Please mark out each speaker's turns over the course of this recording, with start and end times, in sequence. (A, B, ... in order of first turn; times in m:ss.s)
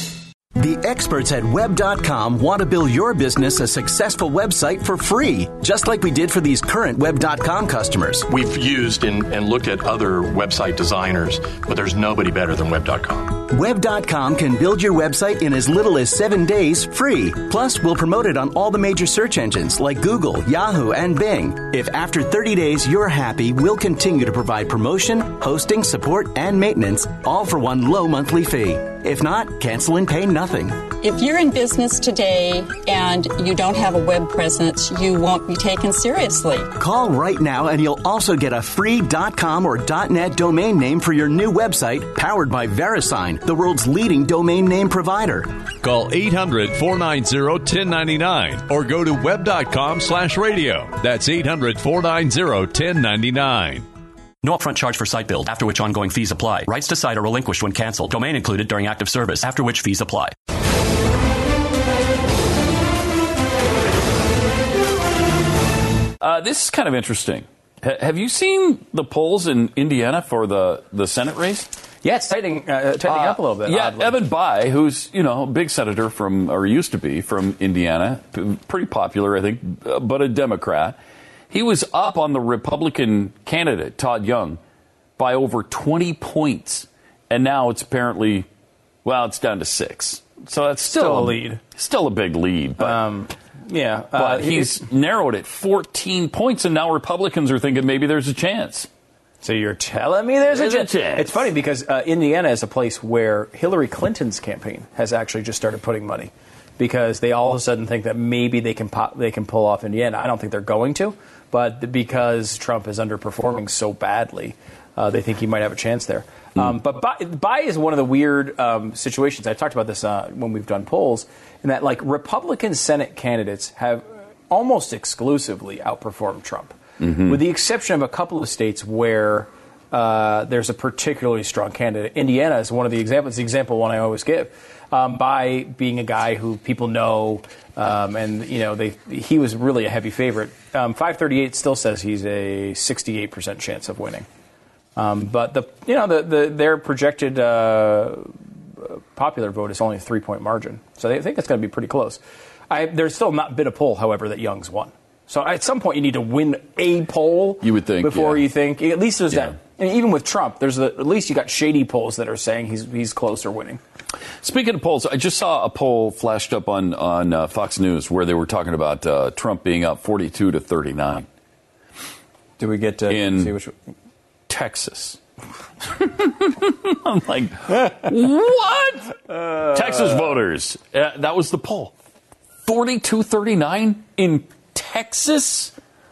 0:00.6-0:08.2 A
0:08.3-0:13.3 B
0:13.5-0:30.8 A
0:31.0-0:36.7 C
0:36.8-0:45.5 A
0:45.8-0:53.8 D
0:54.4-1:00.3 E
1:06.2-1:11.7 F
1:12.0-1:14.2 G
1:13.0-1:21.0 F
1:21.5-1:24.6 F
1:25.2-1:28.5 F
1:29.0-1:33.0 F
1:30.9-1:31.6 G
1:32.8-1:34.8 G
1:34.2-1:38.9 F
1:39.4-2:24.2 G
1:40.5-1:41.4 F
2:25.0-2:43.8 G
2:37.6-2:38.4 F
2:44.4-2:51.2 F
2:52.6-2:53.8 G
2:53.1-2:53.5 F
2:54.5-2:55.2 F
2:55.9-3:01.9 F
3:02.6-3:05.7 F